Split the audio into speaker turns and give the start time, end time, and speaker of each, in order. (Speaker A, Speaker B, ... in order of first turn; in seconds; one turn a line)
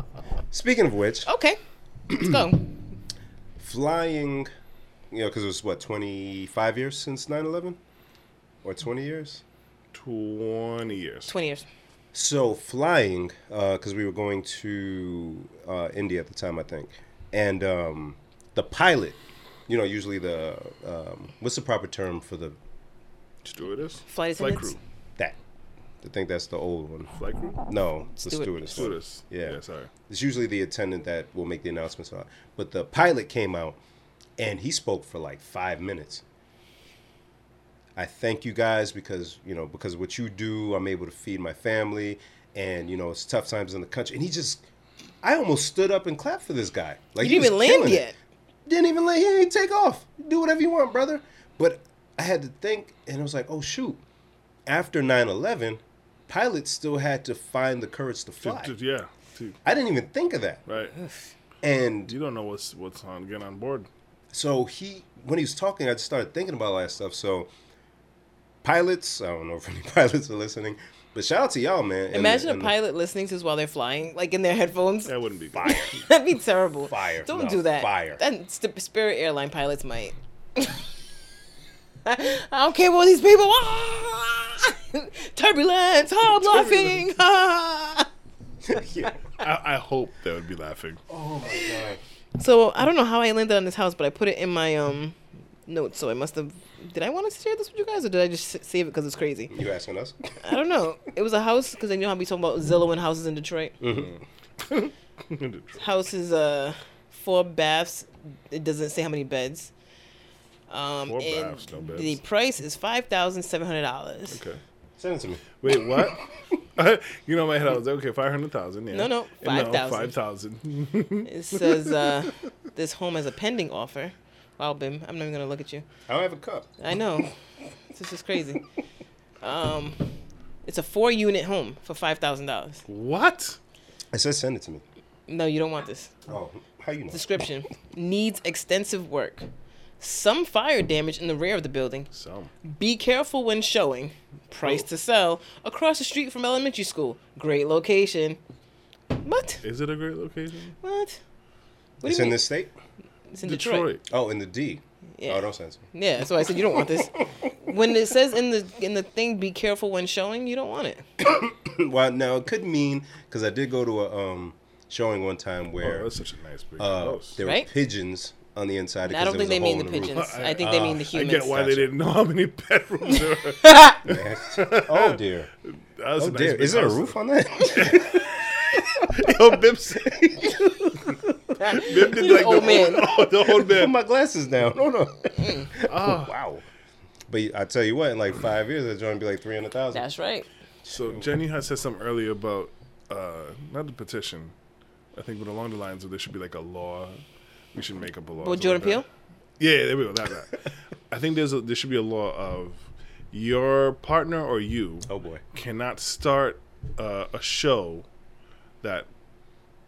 Speaker A: 0.5-1.3
Speaker B: 1.2-2.7
Speaker A: 3.6-4.5
Speaker A: 5.1-7.8
Speaker A: 8.6-9.4
Speaker C: 9.9-11.3
Speaker B: 11.3-11.7
Speaker A: 12.1-22.6
Speaker C: 23.4-24.8
Speaker B: 24.1-24.8
Speaker A: 26.0-27.1
Speaker C: 27.1-27.6
Speaker A: 27.7-33.8
Speaker B: 28.2-28.8
Speaker C: 28.7-29.9
Speaker A: 34.4-36.2
Speaker A: 38.0-44.6
Speaker A: 45.2-48.1
Speaker B: 47.2-48.1
Speaker A: 48.6-54.0
Speaker A: 54.6-58.7
Speaker C: 58.4-59.6
Speaker A: 59.6-60.6
Speaker C: 60.7-60.9
Speaker A: 61.6-62.1
Speaker C: 62.1-63.9
Speaker A: 64.3-67.5
Speaker A: 68.6-72.7
Speaker B: 72.1-80.8
Speaker C: 75.1-75.7
Speaker A: 75.5-75.9
Speaker A: 76.9-78.2
Speaker B: 82.0-88.1
Speaker C: 86.4-87.1
Speaker A: 88.7-89.1
Speaker C: 89.4-91.0
Speaker A: 91.1-92.0
Speaker B: 92.4-99.5
Speaker A: 99.5-100.2
Speaker B: 100.4-103.8
Speaker A: 103.8-104.2
Speaker C: 103.9-105.8
Speaker B: 105.8-109.7
Speaker B: 110.7-114.4
Speaker C: 111.1-112.2
Speaker C: 114.3-114.6
Speaker A: 115.0-116.2
Speaker C: 115.6-116.2
Speaker C: 116.8-122.3
Speaker B: 118.9-120.1
Speaker B: 121.2-125.8
Speaker A: 126.1-126.7
Speaker B: 126.8-127.3
Speaker B: 127.9-128.6
Speaker B: 129.4-132.8
Speaker C: 132.9-133.6
Speaker A: 134.1-134.8
Speaker B: 135.3-136.2
Speaker A: 136.3-137.2
Speaker B: 137.1-139.5
Speaker B: 140.0-142.1
Speaker C: 142.1-142.5
Speaker B: 142.6-148.4
Speaker C: 144.6-144.9
Speaker B: 149.1-149.6
Speaker C: 149.6-150.7
Speaker B: 150.8-151.2
Speaker B: 152.0-152.4
Speaker A: 152.0-152.7
Speaker B: 153.3-153.9
Speaker C: 153.4-154.0
Speaker A: 154.1-155.9
Speaker B: 155.2-161.0
Speaker A: 156.7-157.5
Speaker A: 161.2-166.1
Speaker C: 165.8-167.4
Speaker A: 166.8-171.9
Speaker B: 167.4-167.7
Speaker B: 169.1-171.6
Speaker C: 170.1-177.2
Speaker B: 173.6-174.0
Speaker A: 174.0-175.5
Speaker A: 176.2-179.3
Speaker C: 177.7-178.4
Speaker C: 179.1-183.9
Speaker A: 180.0-181.2
Speaker B: 181.6-183.1
Speaker A: 182.5-186.6
Speaker B: 185.3-185.7
Speaker C: 185.9-186.3
Speaker A: 187.3-190.0
Speaker B: 189.9-190.4
Speaker A: 190.8-191.2
Speaker C: 190.9-194.5
Speaker C: 195.1-197.2
Speaker C: 197.7-199.0
Speaker B: 198.4-199.1
Speaker C: 199.6-208.1
Speaker A: 205.1-205.4
Speaker C: 208.8-209.1